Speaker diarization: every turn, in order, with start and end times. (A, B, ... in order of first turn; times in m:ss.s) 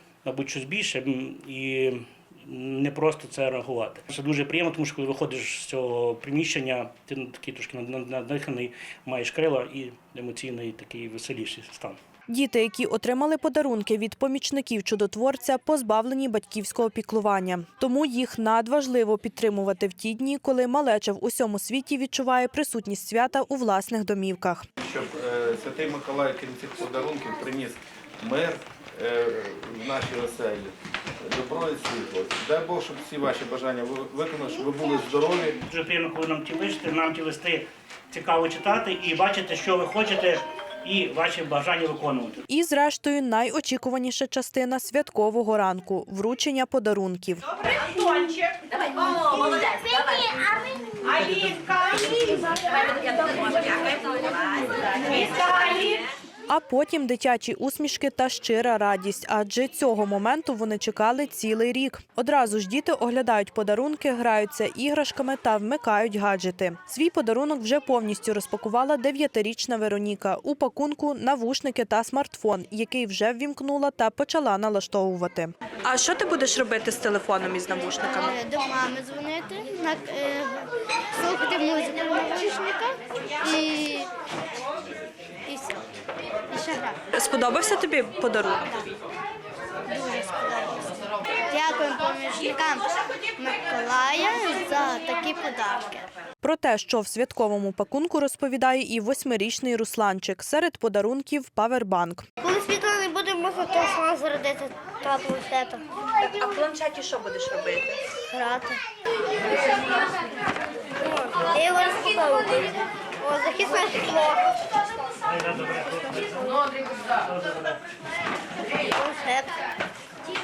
0:00.2-0:12.0 A
0:12.3-0:24.7 B
0:24.8-0:30.7 C
0:31.2-0:35.6 C
0:35.7-0:42.4 A
0:42.5-0:47.4 B
0:48.8-0:50.3 D
0:51.8-0:54.3 D
0:56.5-1:18.3 B
1:16.8-1:18.2 D
1:18.2-1:24.1 E
1:25.5-1:25.8 E
1:26.5-1:27.0 E
1:27.2-1:28.6 B
1:27.2-1:28.8 D
1:29.9-1:31.0 E
1:31.5-1:36.1 E
1:36.4-1:42.3 B
1:42.4-1:45.8 E
1:46.6-1:47.7 B
1:48.3-1:48.8 E
1:49.5-1:49.9 E
1:51.0-1:54.5 E
1:55.3-1:57.8 A
1:58.9-1:59.6 E